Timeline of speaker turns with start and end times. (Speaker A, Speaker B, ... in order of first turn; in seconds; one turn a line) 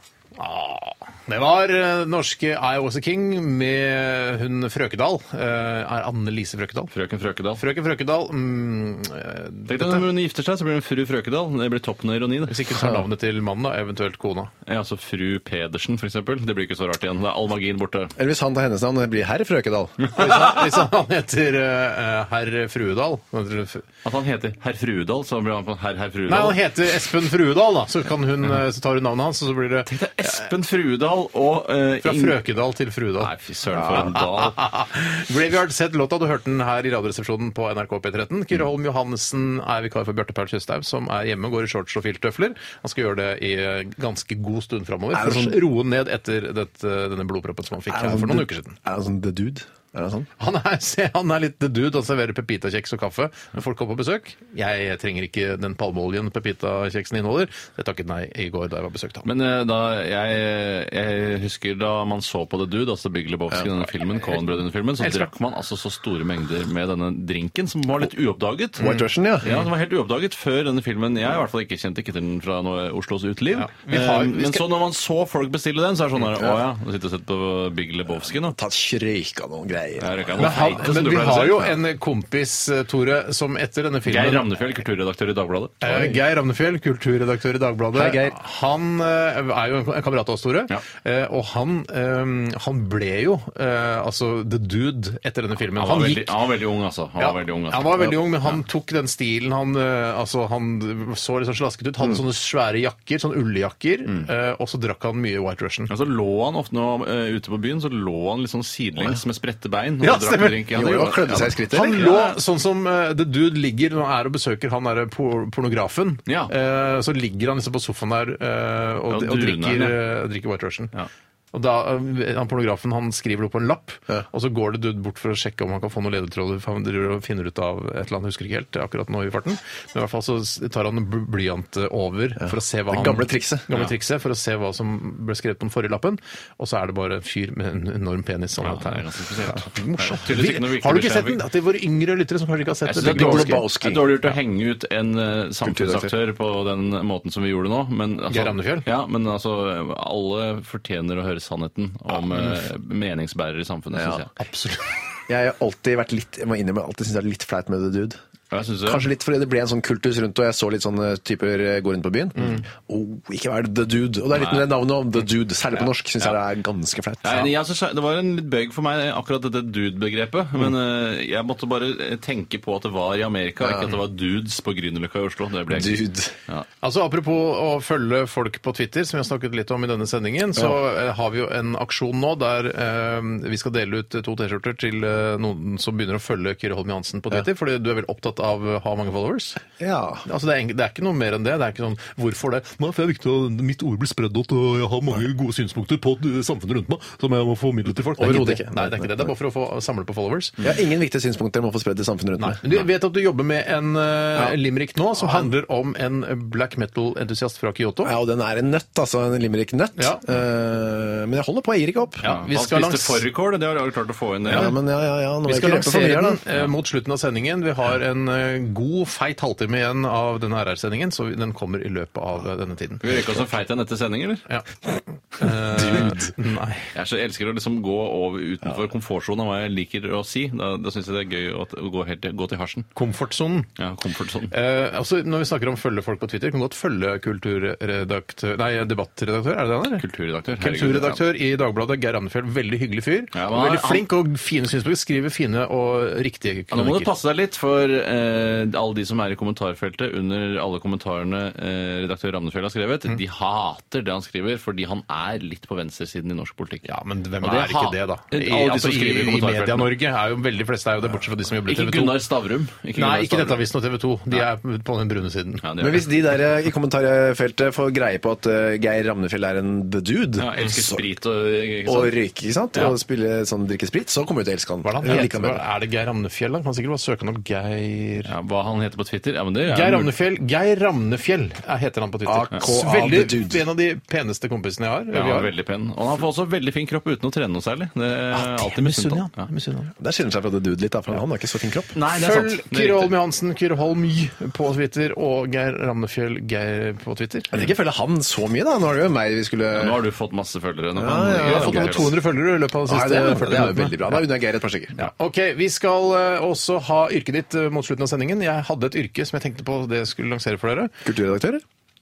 Speaker A: 0.4-6.9
Speaker B: 6.9-7.6
Speaker A: 7.6-10.1
Speaker B: 9.7-12.7
Speaker A: 12.5-14.5
Speaker C: 12.8-13.1
Speaker B: 14.7-18.1
Speaker C: 18.2-20.0
Speaker B: 20.1-20.5
Speaker A: 20.1-23.9
Speaker B: 24.0-26.6
Speaker A: 26.3-30.5
Speaker B: 29.9-32.4
Speaker A: 32.0-33.3
Speaker B: 33.2-34.6
Speaker C: 33.8-34.1
Speaker A: 33.9-48.8
Speaker C: 45.1-45.6
Speaker C: 47.9-50.3
Speaker A: 50.4-59.3
Speaker B: 59.2-78.6
Speaker A: 65.0-65.3
Speaker C: 68.8-69.5
Speaker A: 68.8-69.7
Speaker A: 73.5-74.7
Speaker C: 78.4-80.9
Speaker B: 80.0-81.8
Speaker A: 80.4-84.5
Speaker B: 84.1-85.8
Speaker A: 85.8-96.3
Speaker C: 85.9-86.2
Speaker C: 87.9-88.4
Speaker B: 95.8-98.0
Speaker A: 97.2-105.9
Speaker B: 105.9-112.4
Speaker A: 110.0-111.0
Speaker C: 110.7-112.1
Speaker A: 111.7-120.9
Speaker B: 116.3-116.5
Speaker B: 119.1-120.0
Speaker A: 121.5-143.7
Speaker C: 132.4-133.7
Speaker B: 138.6-141.4
Speaker B: 142.9-154.3
Speaker C: 143.0-144.2
Speaker C: 145.6-146.1
Speaker A: 148.3-148.9
Speaker C: 153.9-154.2
Speaker A: 154.4-154.9
Speaker C: 155.3-158.2
Speaker B: 158.5-159.1
Speaker C: 158.9-167.5
Speaker B: 164.3-164.7
Speaker B: 167.2-176.7
Speaker C: 173.6-173.9
Speaker C: 175.7-176.3
Speaker A: 176.8-189.6
Speaker C: 189.8-190.2
Speaker A: 190.2-200.6
Speaker C: 198.2-199.3
Speaker C: 200.6-202.6
Speaker A: 202.4-208.1
Speaker C: 205.2-205.5
Speaker C: 208.0-212.2
Speaker A: 212.2-213.2
Speaker B: 212.2-214.7
Speaker C: 214.5-216.4
Speaker A: 215.4-223.0
Speaker B: 223.0-224.5
Speaker A: 225.3-226.9
Speaker C: 225.7-226.3
Speaker B: 226.9-232.9
Speaker A: 232.9-233.7
Speaker B: 233.8-234.5
Speaker A: 234.5-240.1
Speaker B: 240.0-241.2
Speaker A: 240.6-247.1
Speaker B: 243.3-244.1
Speaker B: 246.7-256.9
Speaker A: 256.9-262.2
Speaker B: 257.4-260.0
Speaker B: 261.7-263.7
Speaker A: 262.9-265.6
Speaker B: 265.6-266.1
Speaker C: 265.8-271.1
Speaker B: 270.4-272.2
Speaker C: 271.9-275.6
Speaker A: 274.8-278.3
Speaker B: 278.2-280.1
Speaker A: 279.7-285.5
Speaker C: 282.2-283.6
Speaker B: 285.1-289.5
Speaker A: 288.3-289.9
Speaker C: 290.0-291.9
Speaker B: 291.9-293.1
Speaker A: 292.1-297.6
Speaker C: 297.5-300.0
Speaker B: 299.7-302.2
Speaker C: 300.9-302.1
Speaker A: 301.4-304.2
Speaker C: 302.9-305.0
Speaker A: 305.0-310.9
Speaker C: 311.0-311.6